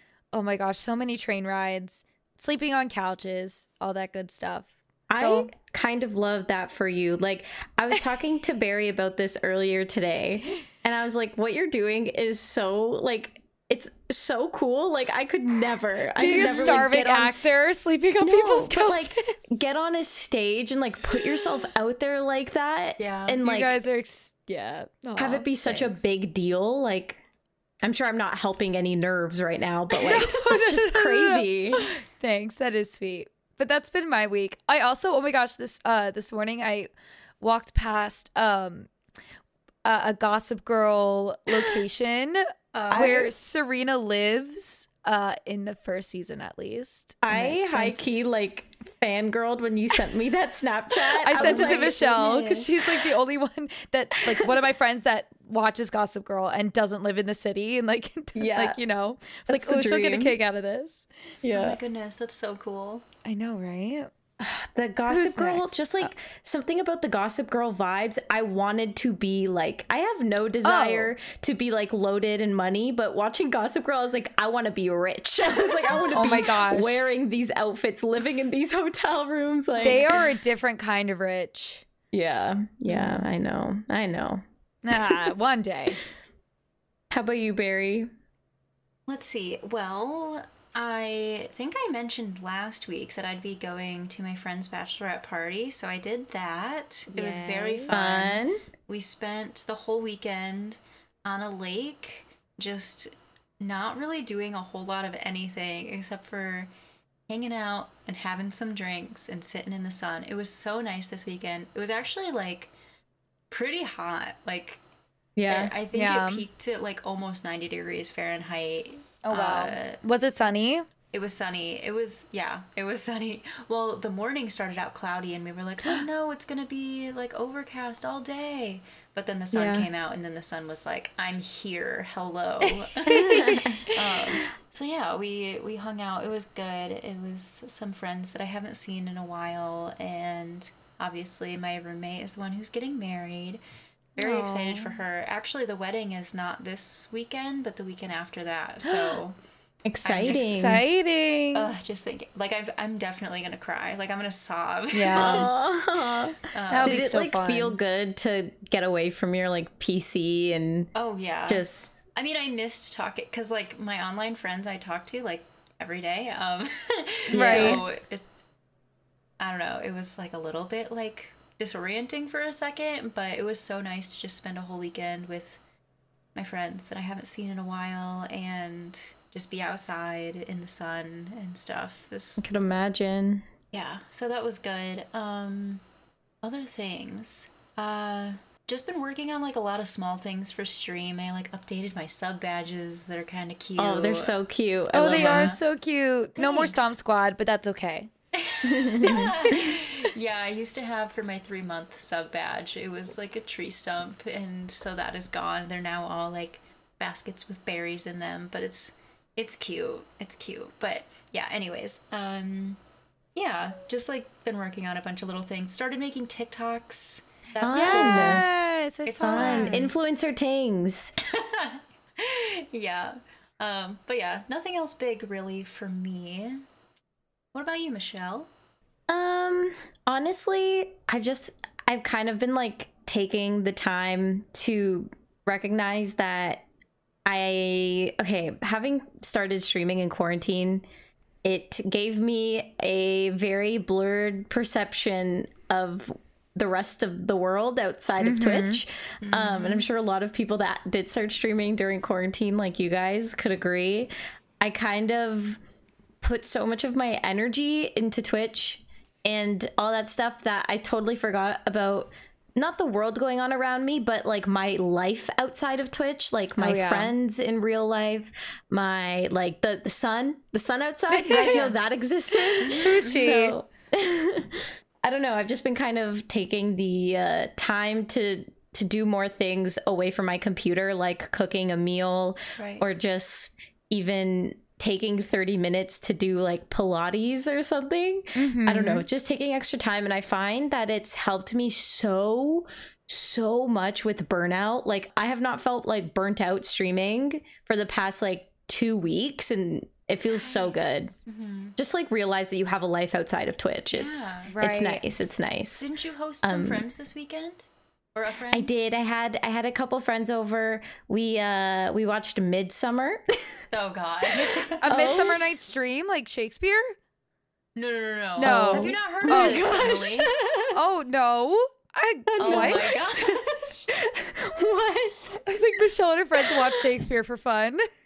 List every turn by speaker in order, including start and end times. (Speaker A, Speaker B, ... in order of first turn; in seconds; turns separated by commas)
Speaker A: 0.3-5.5, Speaker B: 5.1-17.3, Speaker A: 16.1-19.6, Speaker C: 16.3-16.8, Speaker B: 18.2-23.8, Speaker C: 23.0-23.4, Speaker A: 23.4-25.5, Speaker B: 25.2-27.2, Speaker C: 25.6-26.0, Speaker B: 27.8-31.9, Speaker A: 29.9-38.9, Speaker A: 39.9-48.2, Speaker C: 42.7-43.3, Speaker B: 42.9-43.3, Speaker B: 47.2-52.9, Speaker A: 51.2-61.1, Speaker C: 51.3-52.7, Speaker B: 58.4-58.8, Speaker B: 59.5-60.4, Speaker B: 61.4-61.8, Speaker C: 61.5-63.0, Speaker A: 63.2-64.1, Speaker B: 64.4-80.2, Speaker A: 65.1-66.1, Speaker A: 70.6-71.1, Speaker A: 76.1-77.0, Speaker A: 79.8-81.8, Speaker B: 82.1-85.3, Speaker A: 82.9-83.2, Speaker A: 84.8-86.0, Speaker B: 87.1-88.1, Speaker C: 89.1-106.7, Speaker A: 97.1-97.9, Speaker B: 97.9-98.6, Speaker C: 107.3-112.7, Speaker C: 113.5-114.8, Speaker B: 115.4-115.7, Speaker C: 115.5-120.0, Speaker A: 115.9-116.5, Speaker A: 119.2-120.8, Speaker C: 121.1-143.6, Speaker B: 129.5-129.9, Speaker A: 132.6-134.0, Speaker B: 133.1-133.9, Speaker C: 144.2-149.4, Speaker A: 144.2-144.9, Speaker A: 148.9-149.2, Speaker B: 149.8-150.8, Speaker C: 150.0-150.7, Speaker A: 150.3-151.7, Speaker C: 151.5-155.5, Speaker A: 154.9-155.5, Speaker B: 155.1-160.9, Speaker C: 156.5-157.1, Speaker A: 156.7-157.8, Speaker C: 160.9-168.3, Speaker B: 161.5-162.0, Speaker A: 167.3-167.8, Speaker B: 167.3-167.8, Speaker C: 169.4-175.6, Speaker C: 176.3-182.4, Speaker B: 182.4-183.5, Speaker C: 183.7-185.8, Speaker C: 186.4-194.3, Speaker B: 193.8-195.6, Speaker A: 194.9-198.1, Speaker C: 195.0-195.6, Speaker C: 196.4-196.9, Speaker C: 198.3-212.8, Speaker B: 198.6-199.6, Speaker C: 213.3-218.5, Speaker B: 217.6-218.5, Speaker A: 217.7-219.9, Speaker C: 219.1-219.9, Speaker B: 219.2-221.1, Speaker C: 221.2-226.6, Speaker C: 227.5-228.5, Speaker B: 229.1-236.6, Speaker B: 237.2-240.8, Speaker B: 241.4-255.6, Speaker A: 248.2-248.8, Speaker C: 249.2-249.9, Speaker B: 256.2-301.2, Speaker A: 266.6-267.1, Speaker A: 271.1-271.7, Speaker C: 271.2-271.9, Speaker A: 272.4-273.6, Speaker C: 272.8-273.4, Speaker C: 282.6-282.9, Speaker A: 288.4-289.1, Speaker C: 300.3-301.8, Speaker B: 301.8-305.9, Speaker C: 303.9-304.5, Speaker A: 304.5-305.0, Speaker C: 305.8-308.7, Speaker B: 306.4-306.8, Speaker B: 308.5-313.2, Speaker C: 313.7-314.8, Speaker A: 314.4-317.0, Speaker B: 314.8-315.4, Speaker C: 317.8-320.3, Speaker A: 318.4-319.7, Speaker B: 318.4-320.8, Speaker A: 320.7-322.9, Speaker B: 322.3-323.4, Speaker C: 322.4-323.9, Speaker B: 323.9-325.5, Speaker A: 325.4-327.8, Speaker B: 326.4-326.8